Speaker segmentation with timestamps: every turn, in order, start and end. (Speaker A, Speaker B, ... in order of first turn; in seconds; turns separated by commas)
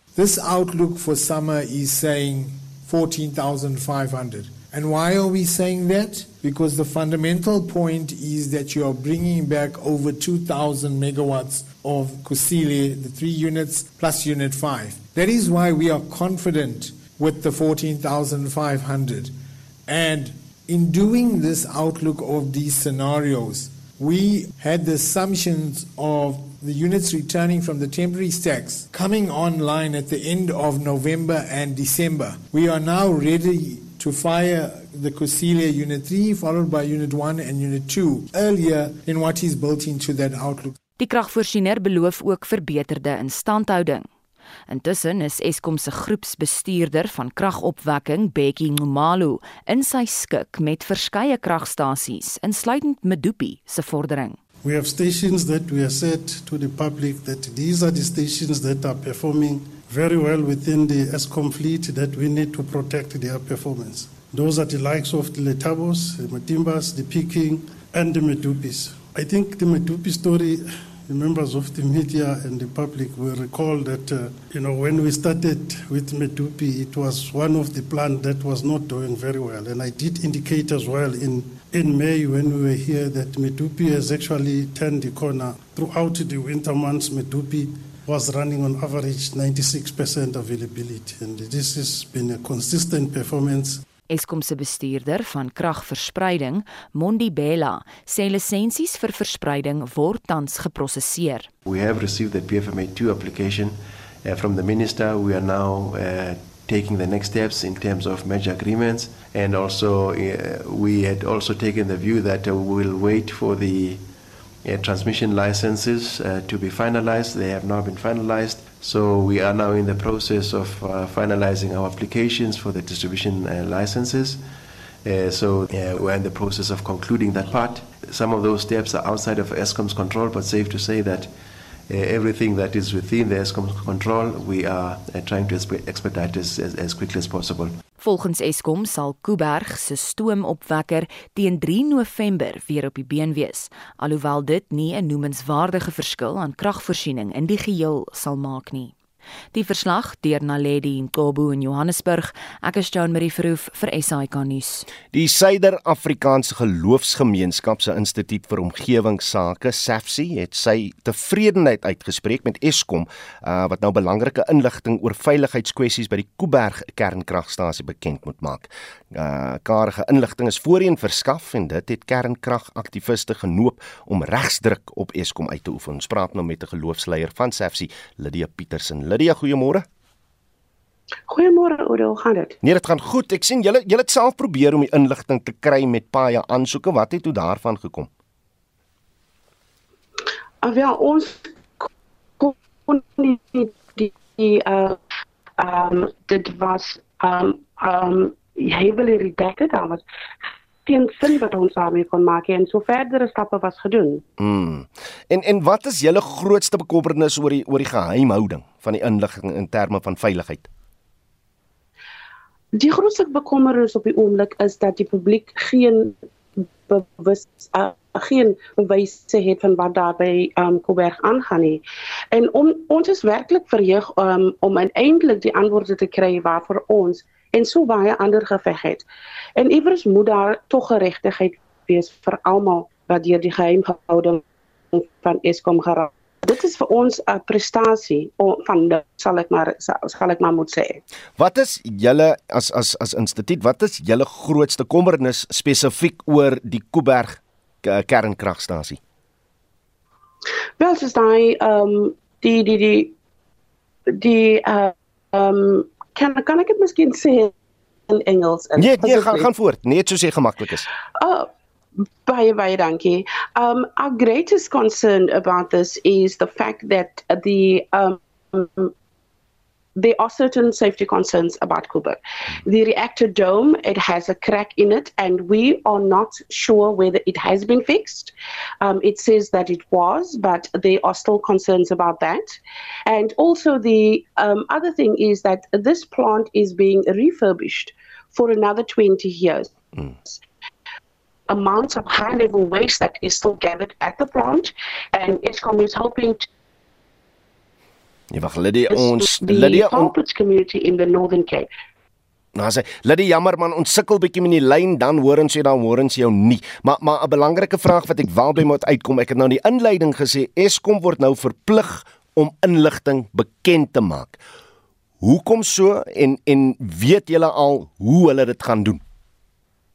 Speaker A: 0.1-19.3, Speaker A: 19.9-40.8, Speaker B: 41.0-44.1, Speaker B: 44.7-54.4, Speaker C: 54.6-93.8, Speaker B: 94.1-101.5, Speaker D: 101.7-114.0, Speaker D: 114.6-124.4, Speaker D: 125.0-131.3, Speaker D: 131.9-137.8, Speaker B: 138.0-148.9, Speaker B: 149.5-154.8, Speaker E: 155.1-179.8, Speaker F: 181.3-182.6, Speaker E: 182.6-188.1, Speaker F: 190.6-191.9, Speaker F: 192.4-195.0, Speaker F: 195.6-200.0, Speaker F: 200.8-204.2, Speaker E: 204.4-210.7, Speaker F: 212.7-229.0, Speaker F: 229.6-241.0, Speaker E: 241.4-249.0, Speaker F: 250.8-253.1, Speaker F: 254.2-257.5, Speaker F: 258.1-259.5, Speaker E: 258.8-260.9, Speaker F: 261.2-261.5, Speaker F: 262.2-268.9, Speaker F: 269.9-289.7, Speaker F: 291.5-296.5, Speaker E: 298.3-300.1, Speaker F: 298.9-301.7, Speaker E: 302.5-314.4, Speaker E: 315.2-319.0